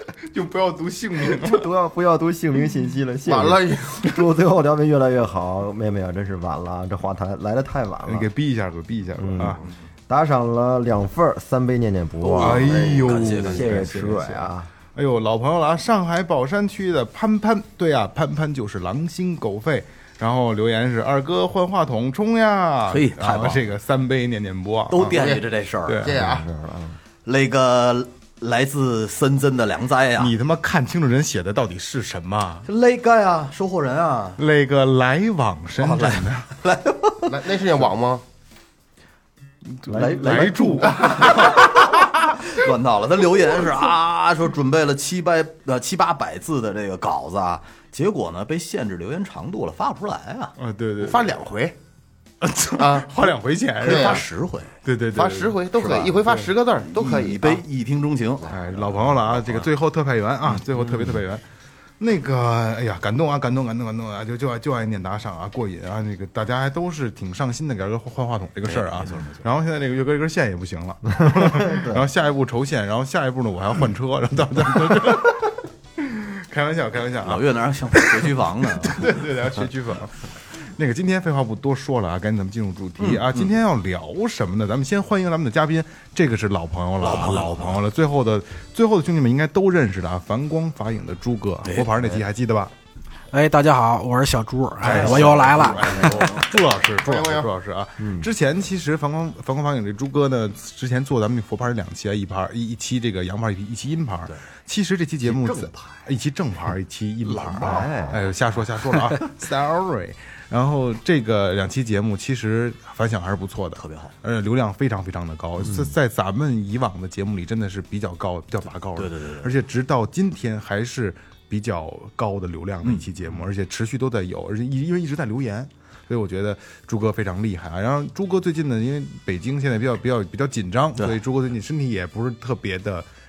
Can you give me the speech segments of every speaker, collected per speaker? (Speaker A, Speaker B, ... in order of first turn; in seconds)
Speaker A: 0.2-1.7, 8.1-9.6, 12.3-25.1, 25.9-26.1, 30.2-32.6, 34.4-36.5, 39.6-41.4, 50.6-51.4, 52.4-54.2, 54.8-55.6, 58.5-61.4, 62.0-92.7, 94.8-133.1
Speaker B: 1.2-8.3, 9.2-14.7, 26.0-27.0, 39.9-41.2, 71.6-72.0, 98.0-98.3, 107.6-108.2
Speaker C: 3.2-4.2, 12.4-13.9, 25.1-26.4, 37.2-38.2, 51.0-51.8, 52.8-53.1, 53.8-54.2, 55.1-57.6, 97.0-97.5
Speaker D: 12.2-13.9, 22.9-23.6, 24.9-26.1, 27.2-30.3, 32.6-34.4, 35.8-37.5, 40.0-50.5, 53.8-54.8, 55.8-59.7, 60.7-61.2, 68.6-69.5, 77.2-79.2, 83.0-83.5, 87.0-87.8, 91.6-91.9, 94.8-96.5, 105.2-106.1, 107.2-108.0, 109.0-109.3, 113.8-114.1, 118.9-119.5, 122.8-123.4
Speaker E: 93.3-96.3